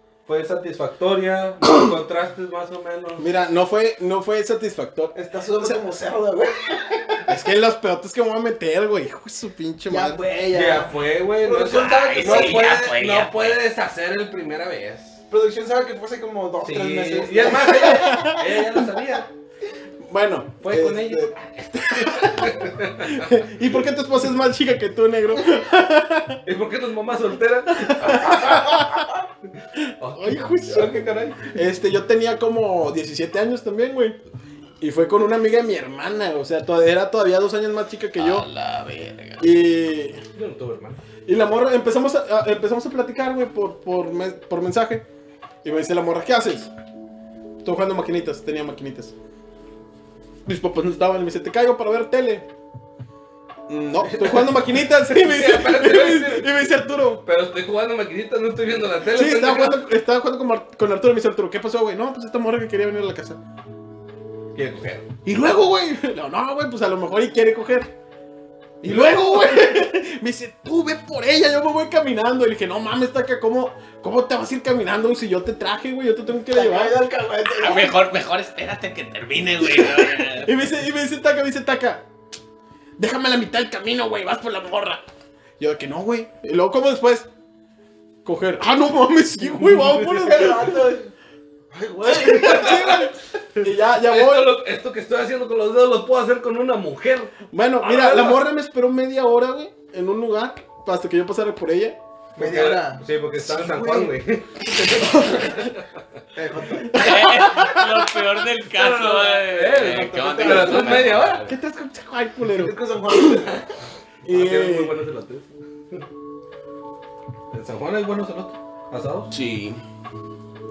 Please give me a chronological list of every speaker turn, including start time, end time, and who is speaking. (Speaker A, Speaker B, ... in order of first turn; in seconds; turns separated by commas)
Speaker A: 0.3-3.2, Speaker B: 3.2-5.8, Speaker C: 5.1-7.3, Speaker B: 7.3-10.2, Speaker C: 9.9-12.7, Speaker A: 10.5-15.2, Speaker D: 11.7-13.6, Speaker C: 15.3-18.4, Speaker A: 16.6-19.3, Speaker B: 17.6-18.7, Speaker B: 20.0-26.4, Speaker A: 20.6-23.4, Speaker A: 26.4-29.1, Speaker B: 27.8-29.0, Speaker A: 30.0-31.6, Speaker B: 30.0-34.2, Speaker B: 34.8-38.5, Speaker D: 38.2-39.5, Speaker B: 39.4-40.2, Speaker A: 40.4-41.0, Speaker B: 41.3-45.0, Speaker B: 45.6-46.7, Speaker B: 47.6-49.1, Speaker B: 50.5-52.5, Speaker B: 53.7-57.2, Speaker A: 54.0-56.5, Speaker A: 57.2-59.8, Speaker B: 59.1-63.4, Speaker A: 64.5-65.1, Speaker B: 65.2-67.9, Speaker B: 68.8-77.0, Speaker C: 68.8-69.9, Speaker C: 76.5-78.0, Speaker D: 77.6-80.6, Speaker B: 79.6-82.0, Speaker B: 83.0-85.0, Speaker B: 85.6-87.3, Speaker B: 88.2-90.7, Speaker A: 89.5-90.2, Speaker C: 90.0-91.1, Speaker C: 91.7-93.1, Speaker B: 92.1-94.5, Speaker A: 92.1-93.1, Speaker A: 94.0-97.3, Speaker B: 97.5-102.0, Speaker A: 97.9-98.4, Speaker C: 102.4-105.7, Speaker A: 102.4-104.8, Speaker A: 105.5-105.8, Speaker C: 106.3-107.5, Speaker B: 106.8-108.1, Speaker D: 106.9-111.5, Speaker A: 108.6-111.5, Speaker C: 109.9-111.2, Speaker B: 111.4-112.8, Speaker C: 112.5-113.7, Speaker A: 114.2-116.0, Speaker B: 114.2-114.9, Speaker A: 117.5-119.3, Speaker D: 119.3-119.8